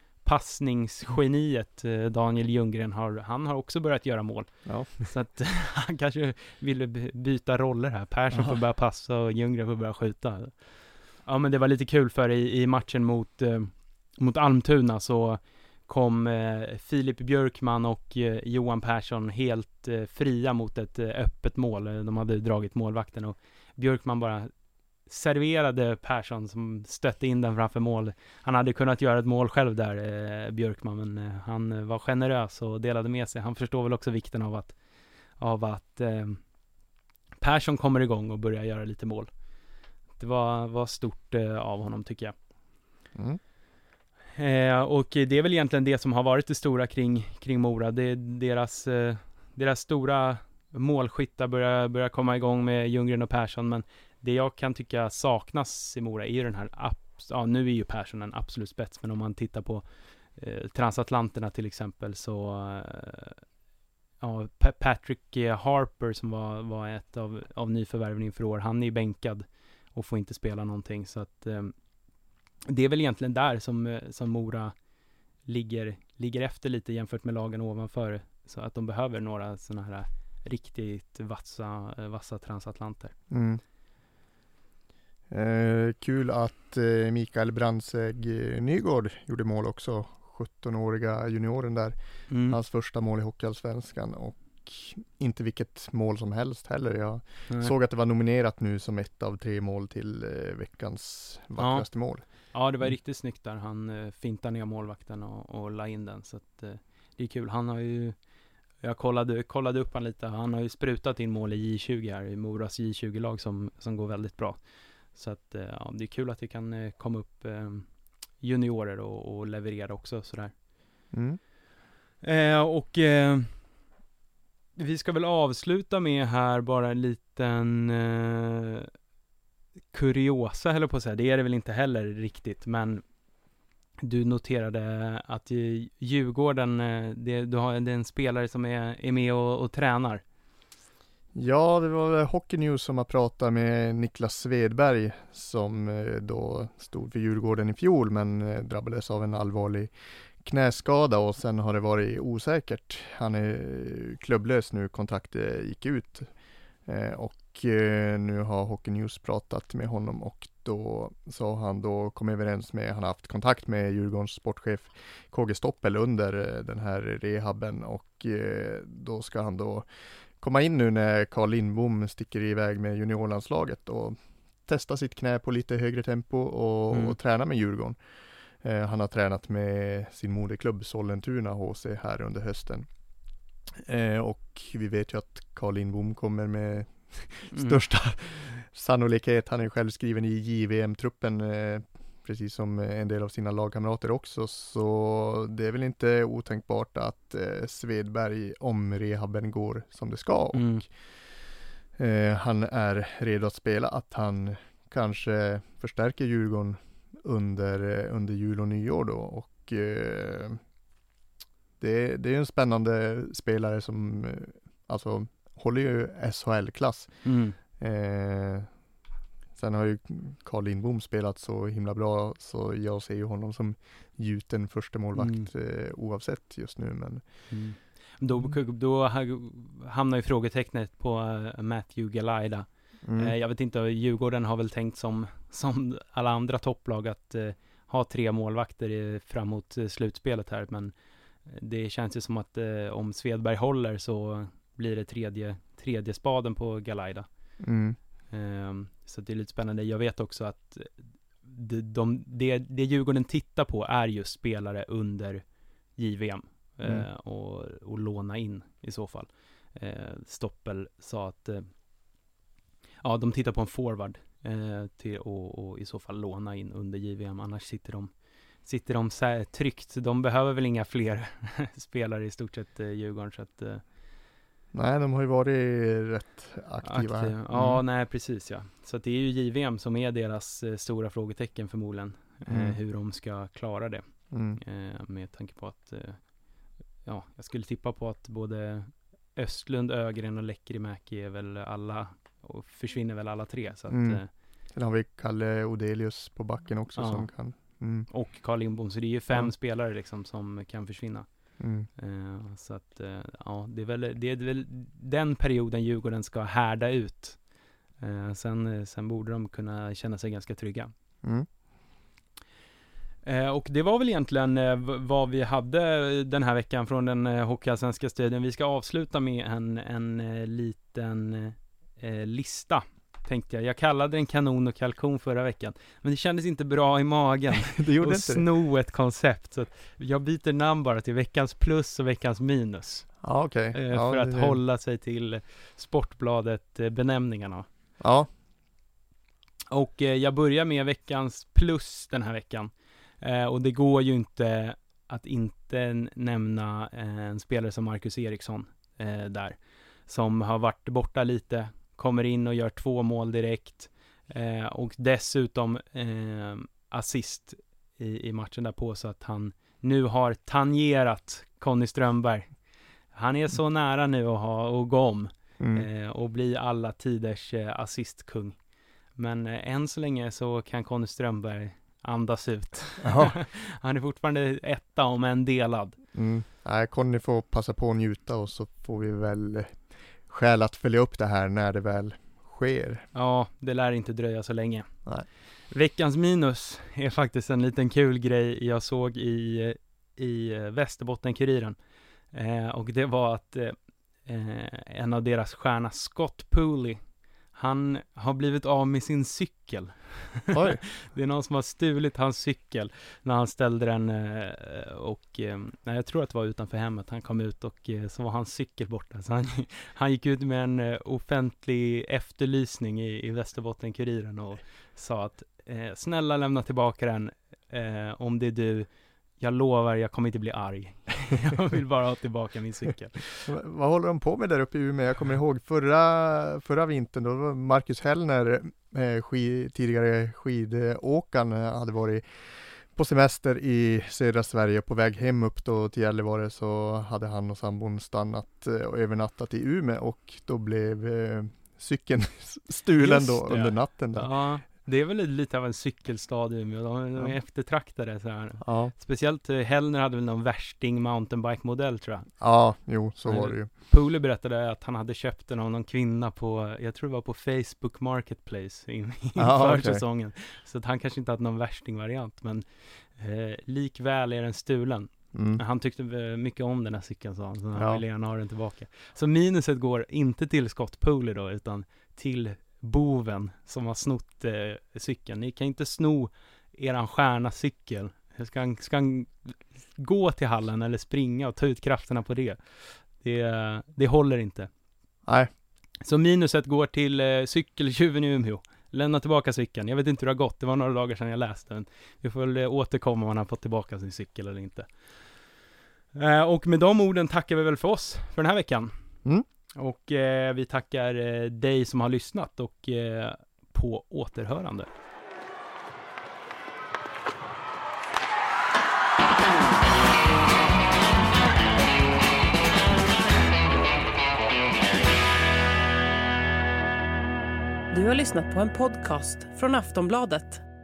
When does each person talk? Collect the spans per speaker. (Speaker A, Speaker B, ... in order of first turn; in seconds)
Speaker A: 0.2-10.6, 11.2-24.5, 25.1-34.8, 35.4-36.4, 37.4-39.3, 40.2-42.4, 44.4-59.9, 60.4-63.4, 64.2-71.7, 72.7-74.7, 75.5-83.2, 92.3-92.6, 101.6-101.9, 102.4-108.2, 108.8-114.6, 115.1-117.9, 118.4-120.5, 122.2-123.5, 124.8-128.9, 129.9-133.0, 134.0-140.2, 187.5-187.8, 200.5-200.8, 217.2-217.6, 225.2-225.5, 227.5-240.9, 241.5-247.3, 248.3-250.9, 251.4-255.4, 256.0-261.7, 263.0-268.1, 268.6-273.8, 276.8-284.0, 284.6-286.2, 287.1-294.3, 297.0-297.3, 298.1-301.3, 302.0-307.4, 308.0-310.9, 313.2-333.1, 333.7-337.7, 339.7-362.5, 363.1-368.6, 369.2-376.0, 383.1-384.9, 385.7-391.8, 392.3-397.0, 397.5-418.9, 419.4-423.5, 443.0-452.3, 453.3-462.6, 463.1-484.7, 486.0-494.9, 496.1-498.9, 499.8-504.9
Speaker B: 4.7-5.1, 83.3-83.6, 85.3-102.2, 121.1-121.4, 141.3-149.9, 150.4-156.3, 156.9-169.9, 170.4-178.0, 178.6-182.9, 183.8-200.9, 202.0-210.6, 211.8-218.7, 219.6-227.2, 233.0-233.3, 247.6-248.0, 274.7-277.8, 282.5-282.8, 284.3-284.6, 293.9-294.2, 294.7-298.1, 301.6-301.9, 327.7-328.5, 333.2-334.6, 338.0-338.3, 365.6-365.9, 373.0-373.4, 376.1-383.1, 400.5-400.8, 423.5-444.3, 448.6-448.9, 452.4-453.7, 459.4-460.0, 465.3-465.6, 467.8-468.0
Speaker C: 517.9-520.6